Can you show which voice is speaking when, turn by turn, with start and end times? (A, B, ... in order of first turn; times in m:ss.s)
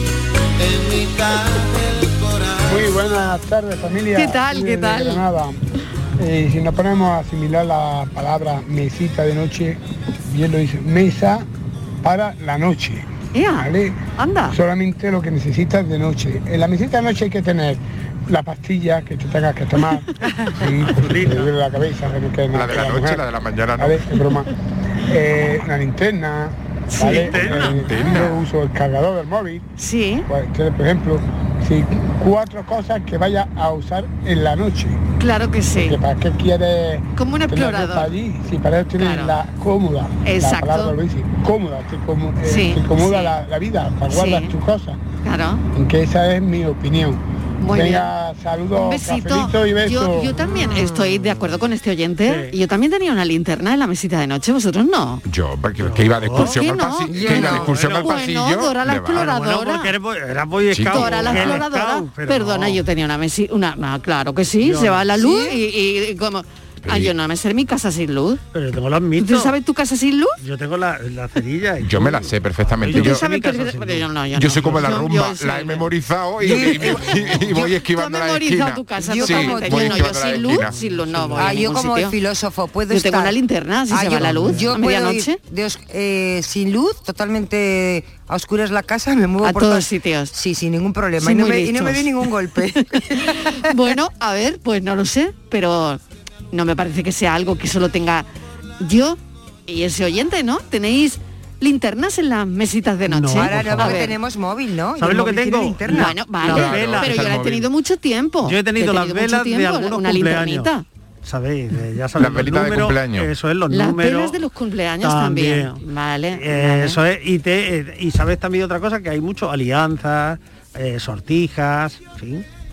0:00.6-0:02.6 A
0:02.7-0:05.5 B
0:04.2-0:05.2 C
0:06.2-0:09.8 B
0:10.3-0:11.4 B
0:12.0-0:13.0 B
0:13.3-0:14.6 C
0:14.6-0:20.0 B
0:20.6-0:23.2 B
0:20.9-0:21.5 D
0:22.5-0:24.0 E
0:23.8-0:24.4 B
0:25.1-0:26.5 B
0:26.9-0:27.4 C
0:27.0-0:28.2 D
0:27.1-0:29.6 B
0:27.8-0:28.4 E
0:29.8-0:30.3 C
0:30.3-0:35.0 B
0:35.2-0:36.0 C
0:35.9-0:37.0 B
0:37.2-0:38.2 C
0:37.7-0:45.0 B
0:39.0-0:39.4 C
0:40.2-0:41.0 C
0:42.4-0:43.3 C
0:44.1-0:44.5 C
0:45.2-0:45.6 C
0:45.8-0:47.2 B
0:47.6-0:48.1 C
0:47.8-0:50.2 B
0:48.8-0:55.2 C
0:52.3-0:52.6 D
0:55.2-0:59.2 E
0:55.8-0:58.3 D
0:56.6-0:59.9 C
0:57.2-0:57.6 F
0:59.1-1:02.8 D
1:00.7-1:01.5 E
1:00.9-1:08.4 C
1:04.6-1:05.6 D
1:06.8-1:07.1 E
1:08.5-1:09.6 D
1:09.2-1:10.4 C
1:10.4-1:15.0 D
1:11.8-1:13.2 E
1:12.9-1:15.9 C
1:14.3-1:20.8 E
1:16.4-1:17.8 F
1:16.4-1:16.8 C
1:17.8-1:22.2 C
1:19.0-1:20.4 F
1:20.7-1:21.7 D
1:21.4-1:23.4 F
1:22.9-1:25.4 C
1:23.9-1:33.5 F
1:24.1-1:24.8 D
1:29.4-1:30.3 C
1:31.2-1:32.2 C
1:33.2-1:36.0 C
1:36.5-1:38.3 C
1:38.8-1:44.2 C
1:43.1-1:44.1 D
1:43.4-1:46.2 F
1:45.0-1:47.4 D
1:45.9-1:50.8 C
1:46.4-1:47.7 E
1:48.4-1:50.7 D
1:51.2-1:54.4 D
1:52.2-1:53.3 E
1:53.7-1:57.0 C
1:55.0-2:02.4 D